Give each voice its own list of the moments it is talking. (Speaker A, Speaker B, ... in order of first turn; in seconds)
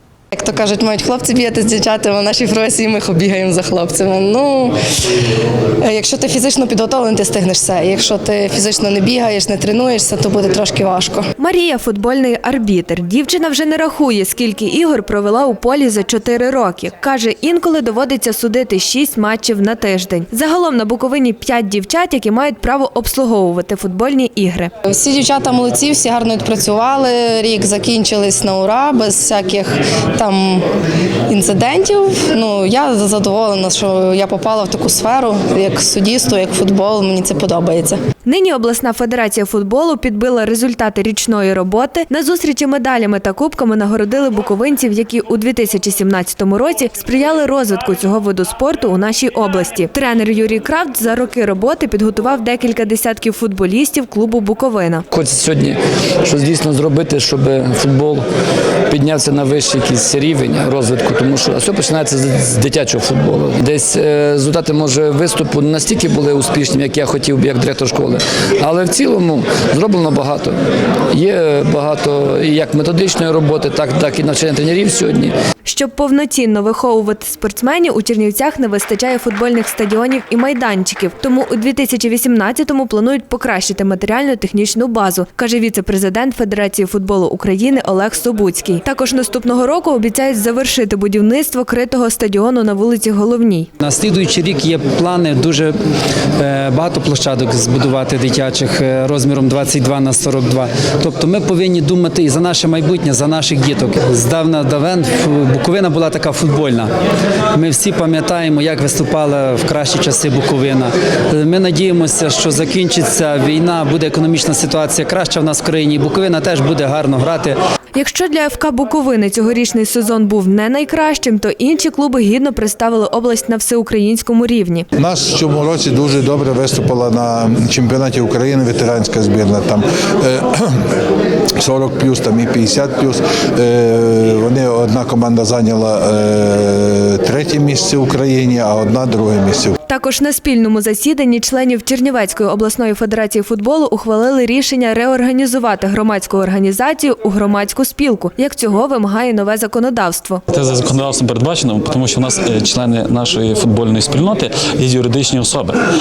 Speaker A: 0.3-4.7, 5.8-11.2, 24.9-30.6, 31.3-38.0
Speaker B: 11.4-24.7, 38.2-55.0, 75.6-93.7, 117.9-124.9, 139.9-150.4
Speaker C: 55.1-58.2, 58.9-70.5, 71.1-75.3
Speaker D: 93.8-95.7, 96.4-106.9, 107.5-117.5
Speaker E: 125.0-130.7, 131.6-139.7
Speaker F: 150.5-155.8